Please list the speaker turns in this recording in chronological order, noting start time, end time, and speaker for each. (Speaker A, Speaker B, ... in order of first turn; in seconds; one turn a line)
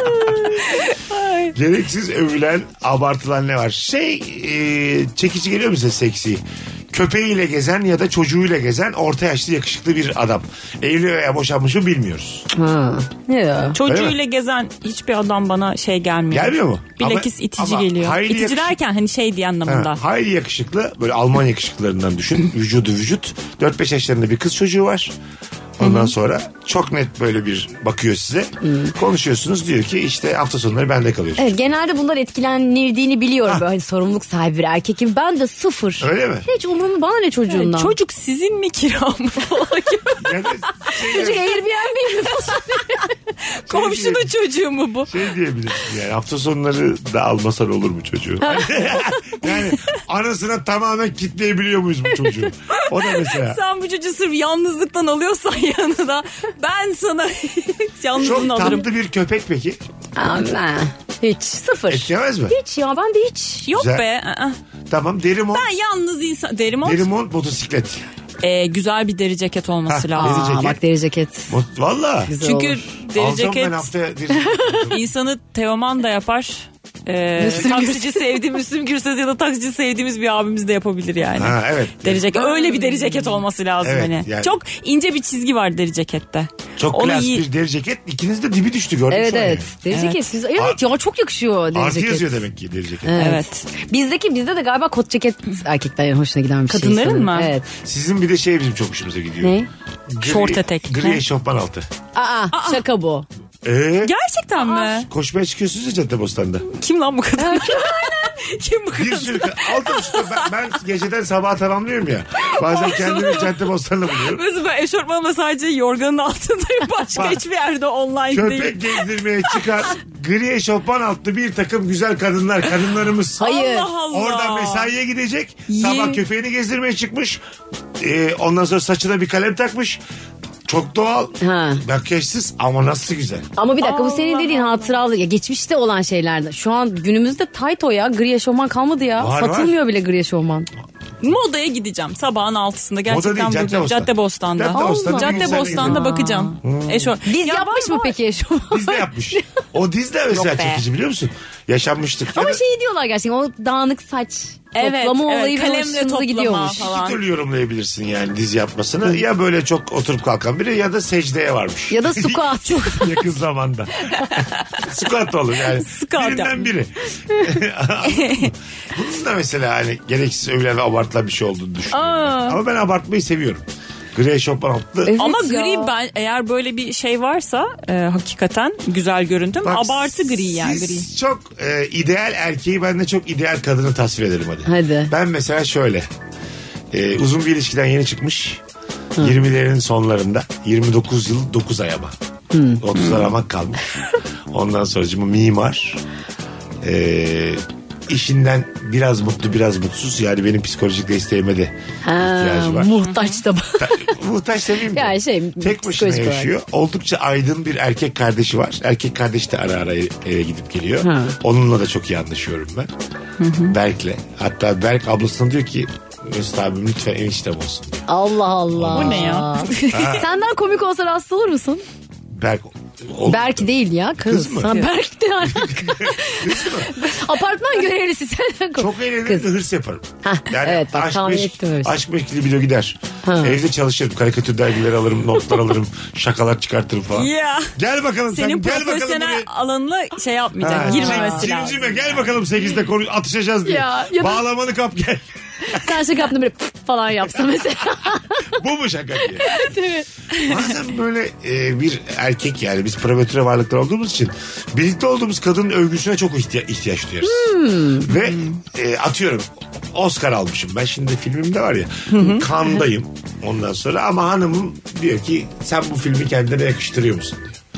Speaker A: 0.3-1.5
Speaker B: 1.5-12.5
Speaker C: 12.5-13.8
Speaker A: 13.8-20.0
Speaker B: 13.9-14.2
Speaker B: 16.3-18.8
Speaker B: 19.7-25.1
Speaker B: 25.8-31.5
Speaker C: 28.6-28.9
Speaker C: 31.4-37.9
Speaker B: 36.0-36.5
Speaker A: 37.5-40.4
Speaker B: 40.2-41.5
Speaker C: 41.0-43.1
Speaker A: 43.5-45.1
Speaker B: 43.7-44.3
Speaker B: 45.1-53.6
Speaker A: 52.7-58.9
Speaker B: 58.2-59.8
Speaker C: 60.2-63.7
Speaker B: 61.9-62.5
Speaker A: 63.7-64.6
Speaker B: 63.7-64.0
Speaker B: 64.9-65.7
Speaker A: 65.5-67.1
Speaker B: 66.8-68.0
Speaker A: 68.4-70.5
Speaker B: 69.9-70.8
Speaker C: 70.2-71.5
Speaker B: 71.5-72.3
Speaker C: 72.3-72.8
Speaker A: 72.4-73.9
Speaker B: 73.1-75.0
Speaker A: 74.9-87.5
Speaker C: 77.4-78.4
Speaker B: 81.4-82.2
Speaker C: 82.3-83.4
Speaker B: 83.8-84.6
Speaker B: 86.8-89.7
Speaker C: 89.1-92.3
Speaker A: 89.9-90.3
Speaker B: 90.6-90.8
Speaker B: 91.7-93.3
Speaker C: 93.0-97.7
Speaker A: 93.2-93.7
Speaker A: 96.7-97.5
Speaker B: 97.8-99.6
Speaker C: 99.4-99.7
Speaker B: 100.1-101.9
Speaker A: 100.2-101.2
Speaker C: 102.2-103.3
Speaker A: 102.5-102.8
Speaker B: 103.6-104.1
Speaker A: 104.0-105.1
Speaker C: 104.6-105.0
Speaker B: 104.9-106.7
Speaker A: 106.7-110.5
Speaker C: 107.4-108.4
Speaker B: 109.0-114.4
Speaker A: 112.5-113.6
Speaker A: 114.2-119.7
Speaker B: 117.2-117.4
Speaker B: 118.3-123.5
Speaker C: 123.4-123.9
Speaker A: 123.4-124.9
Speaker B: 124.1-127.4
Speaker A: 125.7-126.2
Speaker B: 128.0-130.0
Speaker B: 130.7-133.5
Speaker C: 131.4-131.8
Speaker C: 133.6-140.7
Speaker A: 133.8-135.0
Speaker B: 139.2-139.8
Speaker A: 141.2-148.2
Speaker B: 143.1-146.0
Speaker C: 144.7-146.6
Speaker B: 146.6-147.1
Speaker C: 147.2-149.4
Speaker B: 148.7-152.6
Speaker A: 150.3-150.8
Speaker C: 152.3-156.8
Speaker A: 154.7-157.2
Speaker B: 156.7-175.1
Speaker C: 161.9-163.1
Speaker A: 164.1-164.7
Speaker A: 165.7-166.7
Speaker A: 168.0-168.5
Speaker A: 171.9-172.6
Speaker C: 175.1-175.9
Speaker A: 175.2-181.1
Speaker B: 179.6-186.1
Speaker C: 184.7-185.1
Speaker B: 186.9-188.6
Speaker B: 189.2-192.2
Speaker C: 192.5-192.8
Speaker B: 192.8-194.0
Speaker A: 193.0-193.3
Speaker B: 194.5-196.0
Speaker B: 196.8-201.7
Speaker C: 202.0-204.2
Speaker B: 202.3-203.0
Speaker A: 203.0-203.4
Speaker B: 203.8-212.9
Speaker C: 204.9-206.5
Speaker C: 211.0-211.4
Speaker A: 213.4-213.8
Speaker B: 213.7-218.1
Speaker C: 218.1-221.8
Speaker B: 218.7-219.4
Speaker A: 218.9-220.2
Speaker B: 219.9-220.3
Speaker B: 222.3-223.7
Speaker C: 223.2-229.5
Speaker B: 224.2-224.7
Speaker B: 225.4-226.9
Speaker B: 228.8-239.5
Speaker C: 230.2-232.0
Speaker C: 233.2-233.6
Speaker A: 237.1-237.7
Speaker A: 238.3-242.1
Speaker B: 240.6-246.1
Speaker C: 240.6-241.5
Speaker C: 243.7-244.4
Speaker C: 245.7-248.5
Speaker B: 248.5-249.5
Speaker C: 249.3-250.1
Speaker B: 250.4-267.6
Speaker C: 257.2-258.1
Speaker A: 262.1-262.5